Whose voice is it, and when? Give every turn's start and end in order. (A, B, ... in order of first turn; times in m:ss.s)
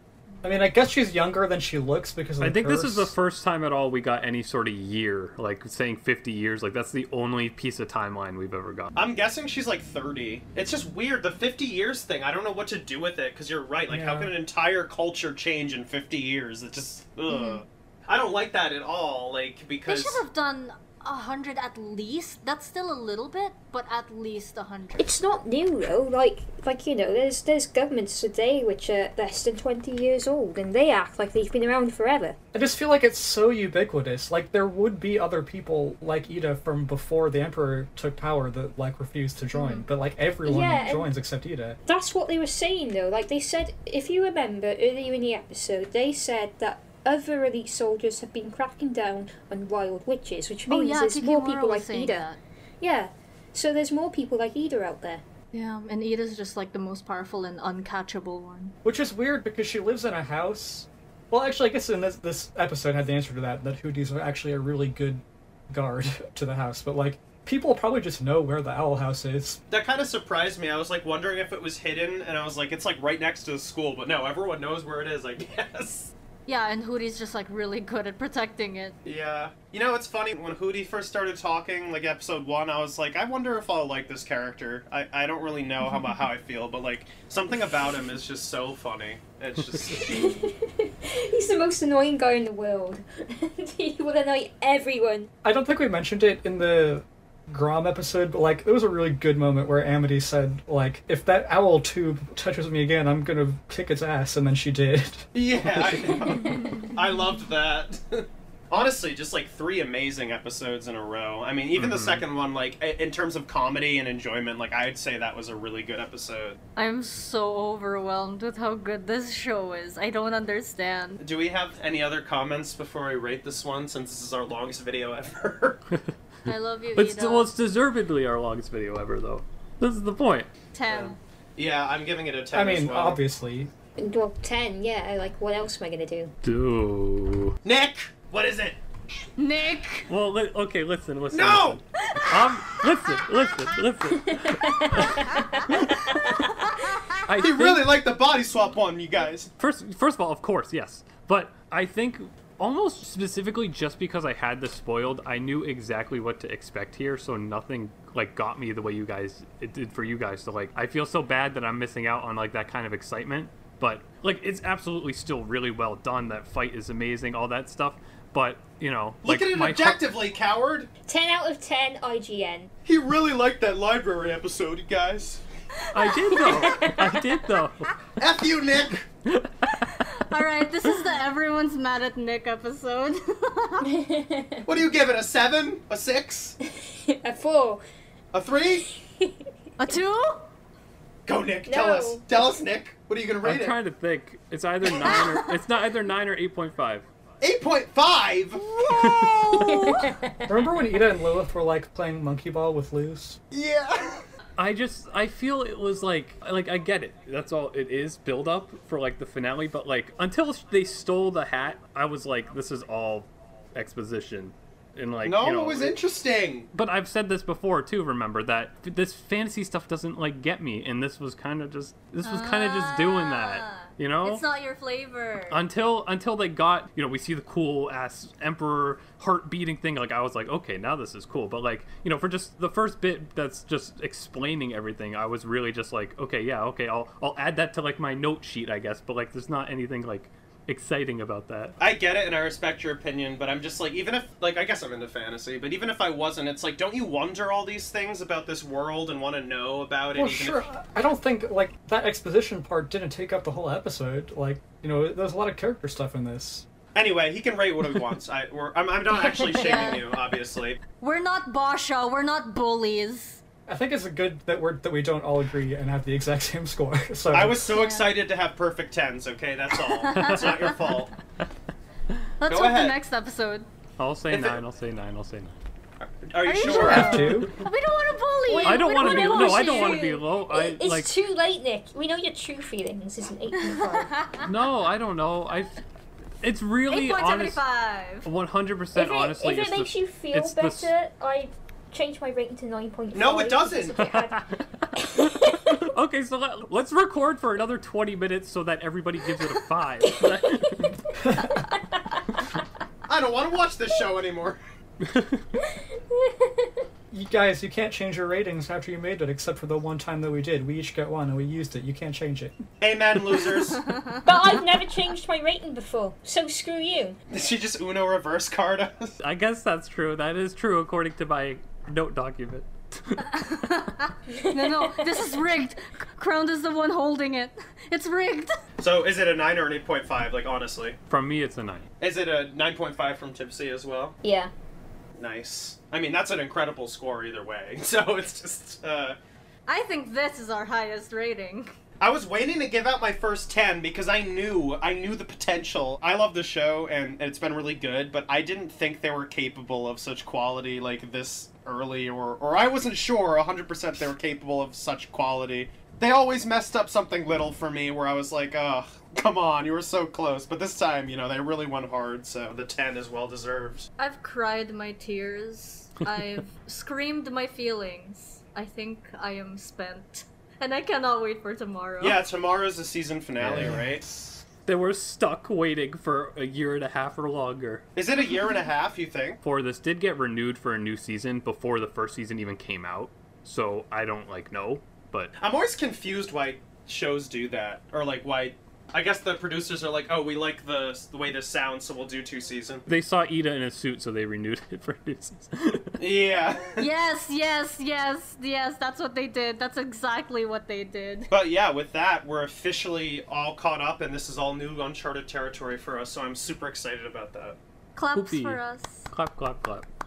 0:00.4-0:03.1 A
0:02.4-0:08.9 B
0:09.0-0:20.2 C
0:13.9-0:14.3 A
0:17.3-0:17.6 D
0:19.9-0:25.1 D
0:25.0-0:32.4 E
0:32.5-0:41.8 A
0:39.5-0:39.9 D
0:40.4-0:41.1 E
0:41.9-0:52.3 E
0:50.7-0:52.4 D
0:52.8-0:55.2 E
0:55.5-0:58.8 D
0:58.8-1:09.6 A
1:09.7-1:16.1 C
1:16.5-1:19.0 D
1:19.0-1:30.3 C
1:29.6-1:30.1 B
1:30.0-1:35.3 E
1:30.0-1:30.5 D
1:35.4-1:46.3 A
1:45.3-1:56.6 C
1:46.3-1:46.9 D
1:51.8-1:52.2 B
1:56.8-2:01.2 D
2:01.2-2:05.8 C
2:06.5-2:07.5 D
2:07.0-2:10.5 B
2:10.7-2:11.2 D
2:10.9-2:13.2 C
2:12.5-2:13.7 A
2:14.0-2:16.3 E
2:16.4-2:17.6 B
2:17.6-2:18.8 C
2:19.4-2:20.1 D
2:20.1-2:25.9 B
2:21.3-2:21.8 C
2:22.1-2:22.8 D
2:24.2-2:26.4 E
2:25.2-2:27.2 D
2:27.2-2:28.0 B
2:27.4-2:29.5 C
2:29.6-2:50.0 B
2:49.2-2:50.9 C
2:51.1-2:52.7 E
2:52.9-2:55.4 C
2:55.8-2:57.0 D
2:55.9-2:57.9 B
2:56.3-2:57.2 E
2:58.2-2:59.1 C
2:59.3-2:59.9 B
2:59.8-3:03.9 D
3:03.8-3:04.7 E
3:04.7-3:06.6 C
3:06.7-3:07.8 E
3:08.3-3:08.9 C
3:08.9-3:09.4 E
3:09.8-3:10.5 D
3:11.3-3:13.8 C
3:11.7-3:12.4 E
3:13.4-3:17.1 B
3:15.1-3:15.4 D
3:17.4-3:19.6 C
3:19.0-3:19.7 B
3:19.5-3:20.7 E
3:20.5-3:23.4 A
3:23.5-3:24.2 C
3:24.6-3:36.0 B
3:35.2-3:36.7 C
3:36.7-3:44.4 B
3:42.2-3:45.6 D
3:45.5-4:01.8 B
4:01.8-4:10.7 C
4:10.1-4:16.7 A
4:16.9-4:20.8 C
4:19.4-4:20.1 E
4:19.5-4:20.0 D
4:21.0-4:23.4 D
4:23.7-4:27.7 A
4:27.3-4:31.2 C
4:27.7-4:28.1 D
4:30.0-4:30.9 D
4:30.2-4:31.0 B
4:32.4-4:33.7 D
4:32.5-4:33.0 C
4:34.0-4:35.5 B
4:34.3-4:34.6 C
4:36.0-4:37.4 C
4:36.4-4:40.1 D
4:36.7-4:37.5 A
4:36.9-4:37.6 B
4:38.5-4:44.3 E
4:38.6-4:41.2 B
4:43.6-4:44.4 D
4:44.4-4:45.8 B
4:46.4-4:47.6 B
4:46.9-4:48.3 D
4:48.2-4:50.9 B
4:49.0-4:55.8 E
4:53.1-4:54.0 C
4:54.0-5:01.0 B
5:01.2-5:01.6 A
5:01.5-5:02.2 E
5:03.1-5:04.6 C
5:05.0-5:05.4 B
5:06.1-5:06.8 E
5:07.1-5:12.6 A
5:12.8-5:14.1 C
5:14.2-5:17.2 E
5:17.3-5:19.2 C
5:19.2-5:23.3 B
5:23.2-5:28.6 D
5:24.3-5:25.3 E
5:28.8-5:31.0 C
5:31.1-5:31.9 B
5:32.0-5:34.2 C
5:34.2-5:34.5 E
5:35.2-5:39.2 C
5:39.7-5:41.7 D
5:42.0-6:03.9 C
6:04.0-6:12.2 D
6:12.0-6:14.0 C
6:13.4-6:13.8 B
6:13.6-6:14.4 A
6:14.7-6:17.8 B
6:18.0-6:19.4 C
6:19.4-6:25.3 B
6:25.4-6:32.8 C
6:32.9-6:36.0 B
6:36.0-6:36.8 C
6:36.7-6:41.3 D
6:41.3-6:47.6 C
6:48.0-6:49.1 D
6:48.2-6:49.9 B